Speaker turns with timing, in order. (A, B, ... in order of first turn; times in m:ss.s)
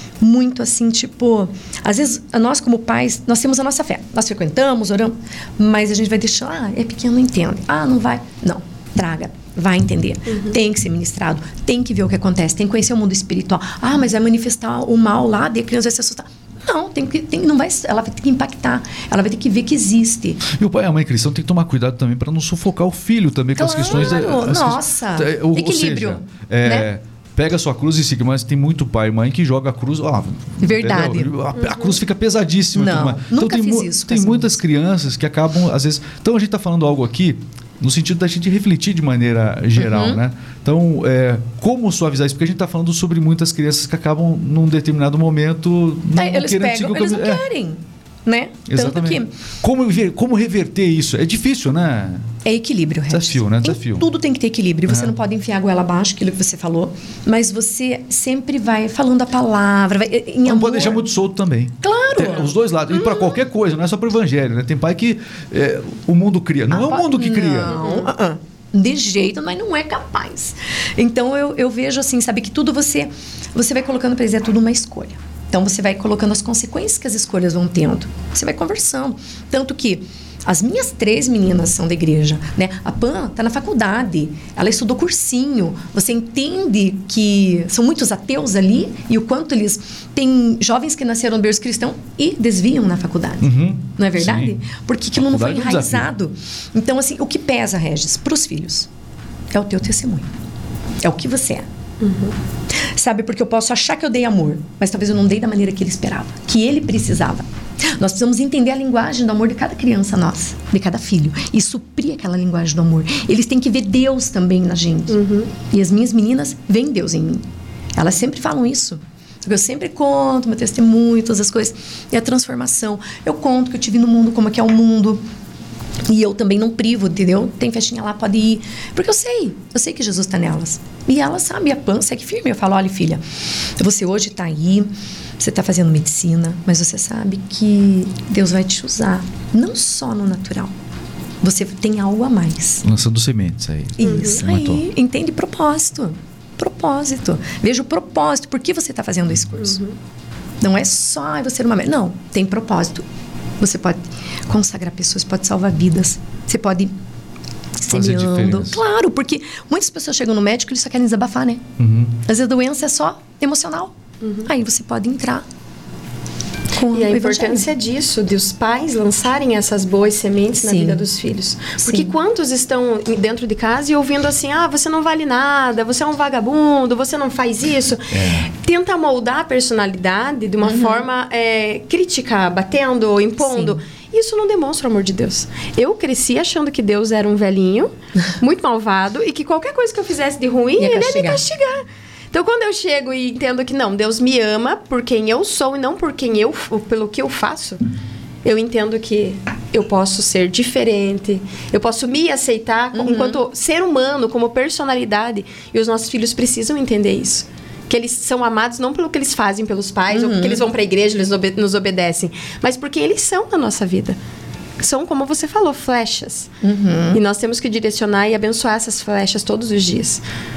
0:00.2-0:20.4 A
0:10.3-0:10.6 B
0:20.4-0:47.4 C
0:23.6-0:26.9 A
0:30.6-0:31.3 A
0:31.6-0:32.0 B
0:32.7-0:34.6 A
0:39.8-0:40.2 A
0:46.2-0:49.3 A
0:48.7-0:52.3 C
0:52.4-1:01.0 A
0:53.1-0:54.1 C
0:54.9-0:55.2 C
1:00.4-1:07.8 C
1:01.8-1:02.5 A
1:06.7-1:38.9 A
1:07.7-1:08.1 B
1:33.4-1:34.6 C
1:35.1-1:36.1 C
1:39.5-1:40.3 A
1:41.0-1:41.7 A
1:42.0-1:42.4 B
1:42.7-2:05.2 A
1:55.1-1:55.5 B
2:06.1-2:20.8 A
2:21.4-2:22.8 A
2:22.8-2:24.8 C
2:24.0-2:29.8 A
2:24.0-2:24.4 B
2:29.6-2:30.0 B
2:30.6-2:33.1 A
2:33.6-2:36.9 A
2:37.8-2:41.6 A
2:37.9-2:38.8 C
2:41.8-2:42.2 C
2:42.3-2:43.9 A
2:44.2-2:44.5 B
2:44.4-2:45.4 A
2:46.8-2:47.7 A
2:46.9-3:17.8 B
2:50.6-2:51.0 A
2:51.8-2:52.1 A
2:58.1-2:58.5 C
3:00.6-3:01.0 A
3:03.4-3:03.8 A
3:10.8-3:11.4 A
3:18.4-3:34.2 B
3:23.0-3:23.4 A
3:30.1-3:30.7 A
3:34.8-3:36.5 B
3:36.6-3:37.2 A
3:37.1-3:40.2 B